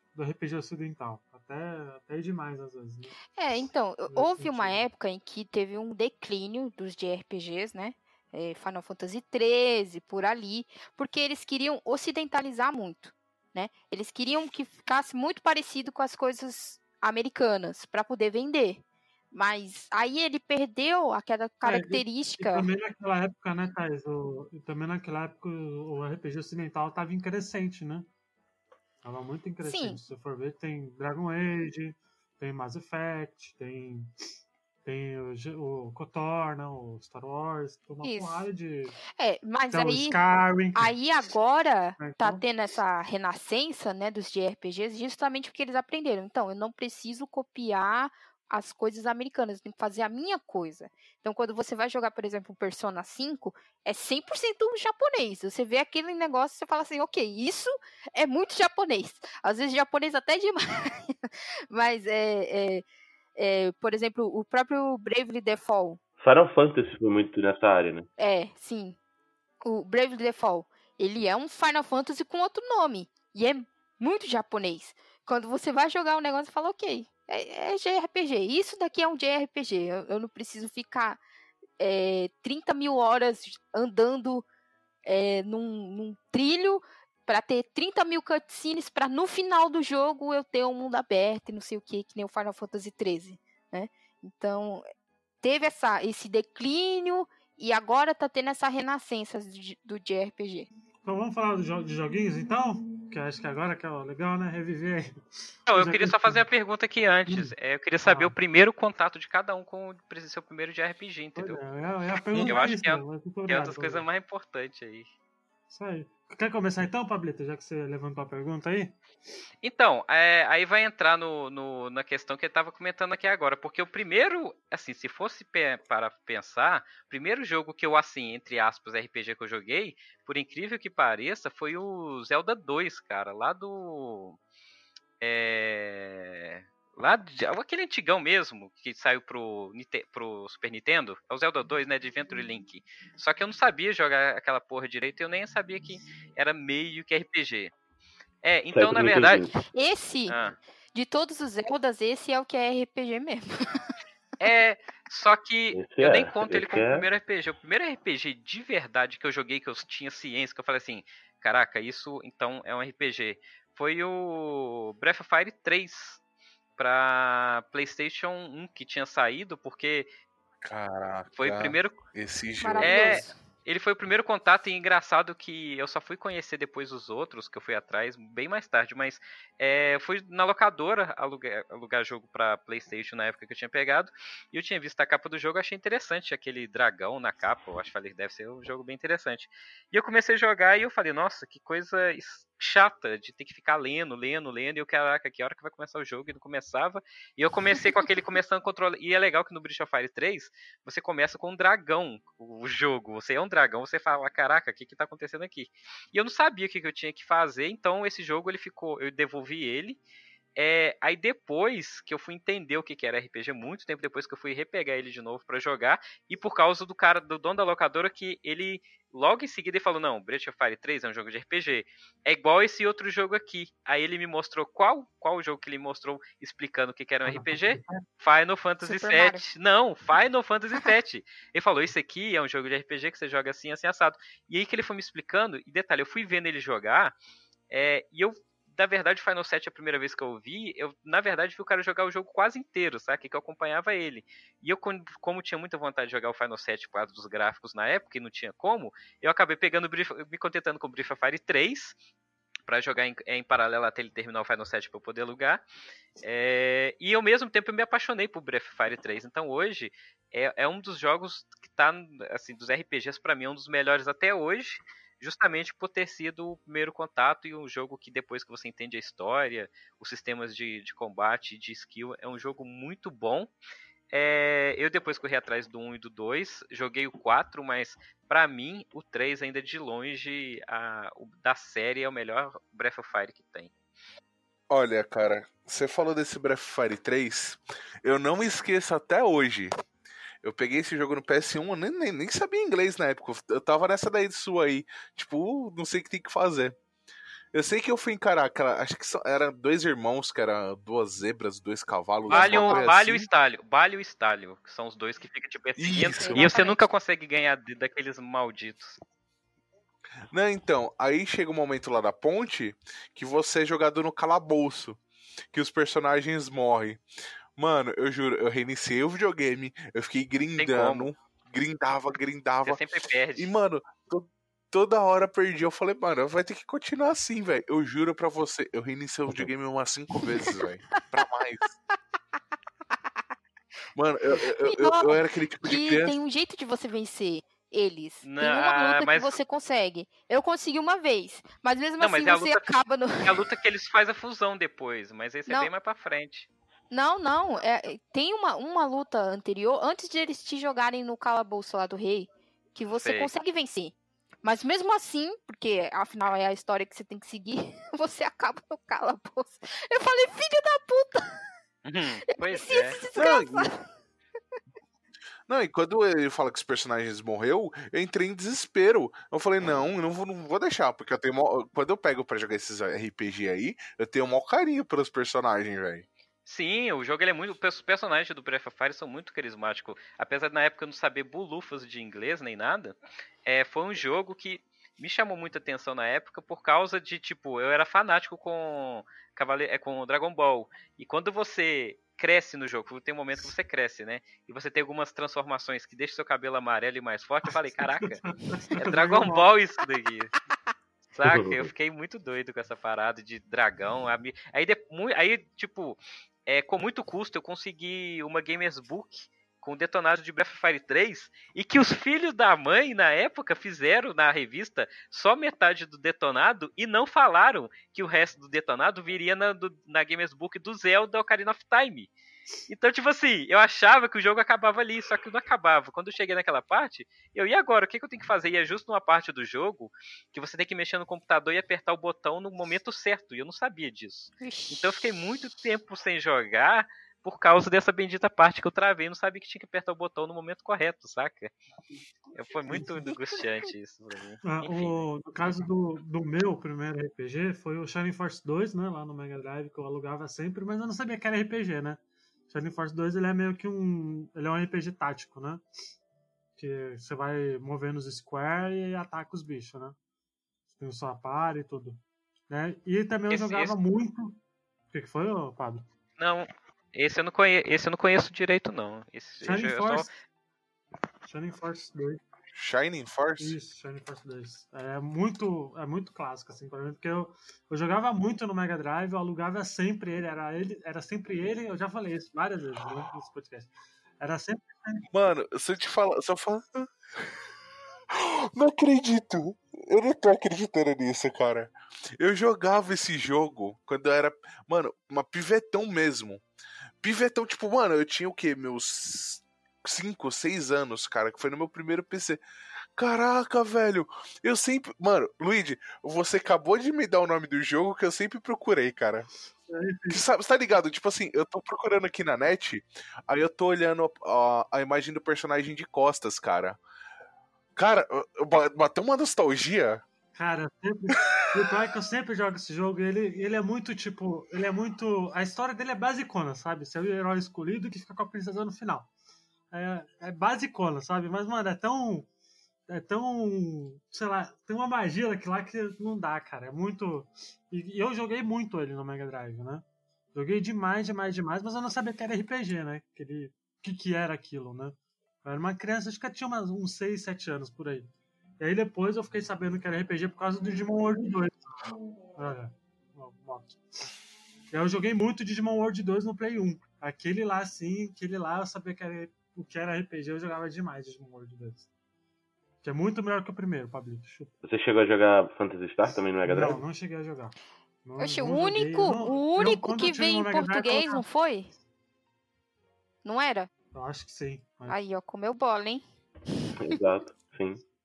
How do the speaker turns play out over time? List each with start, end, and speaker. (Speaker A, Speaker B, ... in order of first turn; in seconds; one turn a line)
Speaker A: 0.1-3.1
Speaker B: 3.4-18.8
Speaker A: 4.1-4.8
Speaker B: 19.3-22.7
Speaker A: 21.6-28.1
Speaker A: 29.0-34.1
Speaker B: 29.6-30.0
Speaker A: 34.9-39.0
Speaker B: 38.0-38.5
Speaker B: 39.1-40.2
Speaker A: 39.7-40.9
Speaker B: 40.7-62.8
Speaker A: 42.0-42.4
Speaker B: 63.4-66.0
Speaker C: 66.2-68.1
Speaker B: 68.2-69.0
Speaker B: 69.6-81.2
Speaker B: 81.8-84.4
Speaker B: 85.0-94.8
Speaker B: 95.4-100.7
Speaker A: 101.0-106.4
Speaker D: 105.7-111.6
Speaker A: 107.3-108.3
Speaker A: 111.4-114.0
Speaker D: 112.4-115.1
Speaker A: 115.7-119.0
Speaker D: 119.6-134.4
Speaker D: 135.2-147.7
Speaker D: 148.4-149.5
Speaker C: 148.7-149.6
Speaker B: 149.7-150.4
Speaker D: 150.3-150.6
Speaker B: 150.9-153.9
Speaker D: 154.4-166.2
Speaker C: 155.7-157.1
Speaker D: 166.8-170.1
Speaker E: 170.6-173.2
Speaker D: 171.4-172.0
Speaker B: 172.6-173.4
Speaker D: 172.8-210.0
Speaker D: 210.6-237.2
Speaker A: 227.2-228.1
Speaker B: 228.8-229.4
Speaker D: 237.7-251.9
Speaker D: 252.7-255.6
Speaker D: 256.2-273.5
Speaker D: 274.1-283.7
Speaker E: 284.7-289.7
Speaker E: 290.4-296.8
Speaker E: 297.5-303.3
Speaker B: 302.3-302.9
Speaker D: 302.3-309.0
Speaker E: 305.8-306.5
Speaker B: 306.2-306.9
Speaker E: 310.3-315.0
Speaker E: 315.5-317.0
Speaker E: 317.6-331.7
Speaker D: 320.6-321.1
Speaker D: 322.6-323.5
Speaker E: 333.9-336.2
Speaker B: 334.6-343.5
Speaker D: 338.2-339.4
Speaker D: 342.0-342.6
Speaker D: 343.2-346.5
Speaker B: 345.5-345.7
Speaker B: 346.9-361.4
Speaker D: 352.9-353.3
Speaker D: 361.9-363.0
Speaker B: 362.3-363.8
Speaker E: 363.1-363.7
Speaker E: 365.5-376.1
Speaker D: 376.4-398.2
Speaker A: 397.7-399.5
Speaker D: 398.8-400.4
Speaker D: 401.1-422.1
Speaker C: 401.2-401.7
Speaker D: 422.7-441.5
Speaker B: 434.4-435.1
Speaker D: 442.3-445.0
Speaker A: 444.4-455.6
Speaker A: 456.6-460.0
Speaker A: 460.8-464.4
Speaker D: 463.3-463.7
Speaker A: 464.9-465.9
Speaker D: 466.2-470.1
Speaker A: 469.4-470.1
Speaker A: 471.2-472.2
Speaker E: 472.5-473.6
Speaker A: 473.4-485.1
Speaker E: 485.1-486.8
Speaker E: 488.1-496.4
Speaker E: 497.0-502.4
Speaker E: 503.0-509.3
Speaker A: 509.6-510.2
Speaker E: 510.1-516.8
Speaker E: 517.8-520.0
Speaker A: 520.3-529.1
Speaker E: 521.2-521.6
Speaker A: 529.7-532.3
Speaker A: 532.9-551.9
Speaker A: 552.4-554.1
Speaker A: 554.7-561.9
Speaker A: 562.8-564.5
Speaker C: 564.6-566.8
Speaker A: 566.4-571.2
Speaker B: 568.2-571.7
Speaker B: 573.2-573.7
Speaker A: 573.9-575.0
Speaker B: 574.9-576.0
Speaker C: 576.8-577.8